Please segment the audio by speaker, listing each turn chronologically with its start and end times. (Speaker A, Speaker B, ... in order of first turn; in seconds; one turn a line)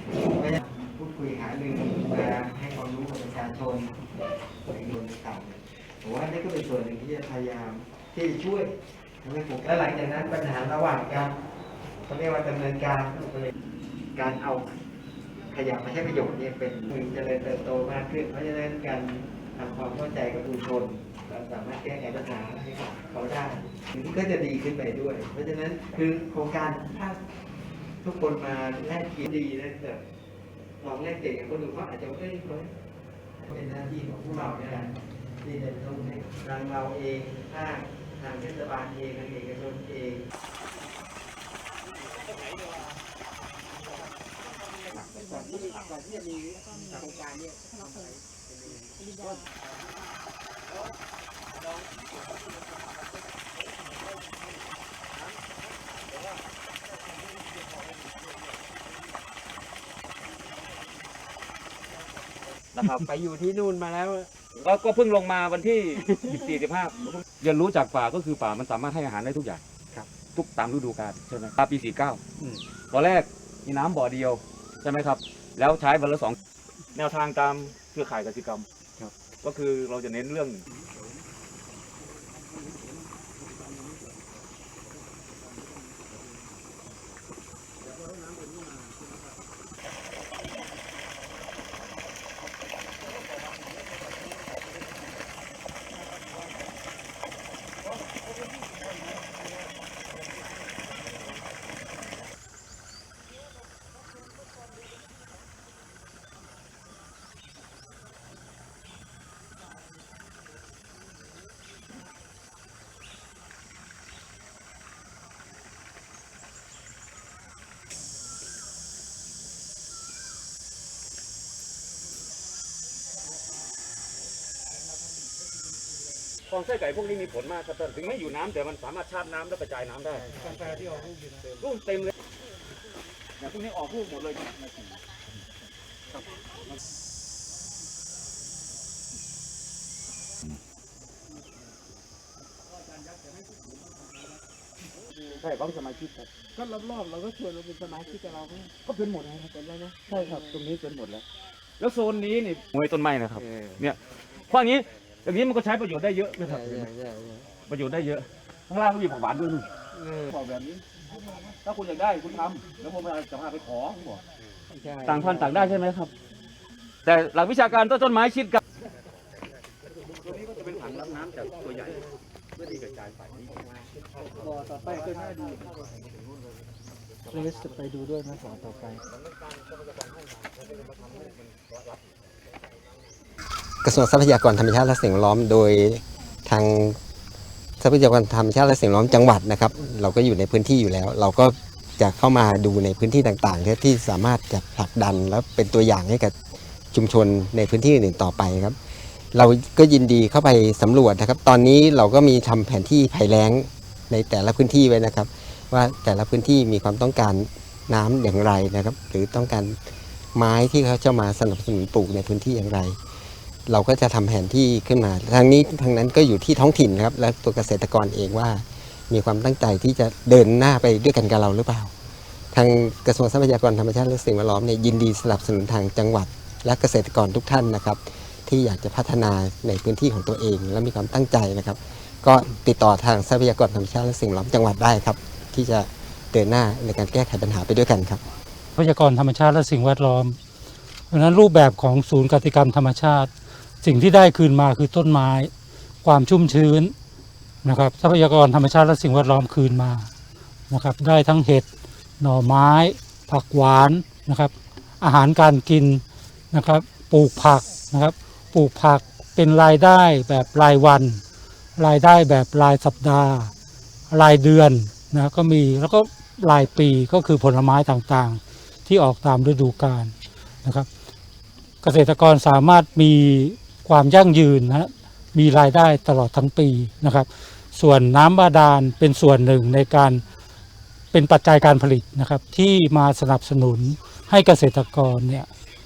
Speaker A: 0.3-4.0
Speaker A: 4.7-11.3
Speaker A: 12.0-13.5
Speaker A: 14.1-14.8
Speaker A: 15.5-27.2
Speaker A: 28.0-30.0
Speaker A: 30.8-32.7
Speaker A: 33.4-40.2
Speaker B: 45.0-49.0
Speaker C: 62.7-63.0
Speaker A: 63.0-64.3
Speaker C: 64.5-69.6
Speaker C: 70.3-72.2
Speaker C: 72.9-76.4
Speaker C: 76.9-78.7
Speaker C: 79.4-80.7
Speaker C: 83.4-84.0
Speaker C: 87.8-89.2
Speaker C: 126.5-130.9
Speaker C: 131.6-132.1
Speaker C: 133.4-134.9
Speaker C: 145.3-146.3
Speaker B: 146.6-148.7
Speaker C: 148.8-151.2
Speaker B: 149.8-150.5
Speaker C: 151.8-154.0
Speaker C: 154.5-156.9
Speaker B: 156.4-157.5
Speaker C: 157.7-159.7
Speaker B: 160.0-160.3
Speaker C: 160.3-160.8
Speaker C: 161.6-164.2
Speaker B: 164.8-165.8
Speaker C: 165.0-166.1
Speaker C: 167.0-168.6
Speaker C: 170.2-176.0
Speaker B: 174.4-175.5
Speaker B: 177.3-177.8
Speaker A: 178.3-178.6
Speaker C: 179.4-181.9
Speaker D: 183.8-187.0
Speaker D: 187.8-196.3
Speaker D: 196.9-198.8
Speaker D: 199.3-209.8
Speaker D: 210.3-213.0
Speaker D: 213.7-221.9
Speaker D: 222.5-238.2
Speaker E: 238.7-240.4
Speaker E: 241.1-243.3
Speaker E: 243.8-245.5
Speaker E: 246.0-246.9
Speaker E: 247.6-250.1
Speaker E: 250.7-251.6
Speaker E: 252.2-261.2
Speaker E: 261.8-263.5
Speaker E: 264.1-270.9
Speaker E: 271.8-280.2
Speaker E: 281.1-285.5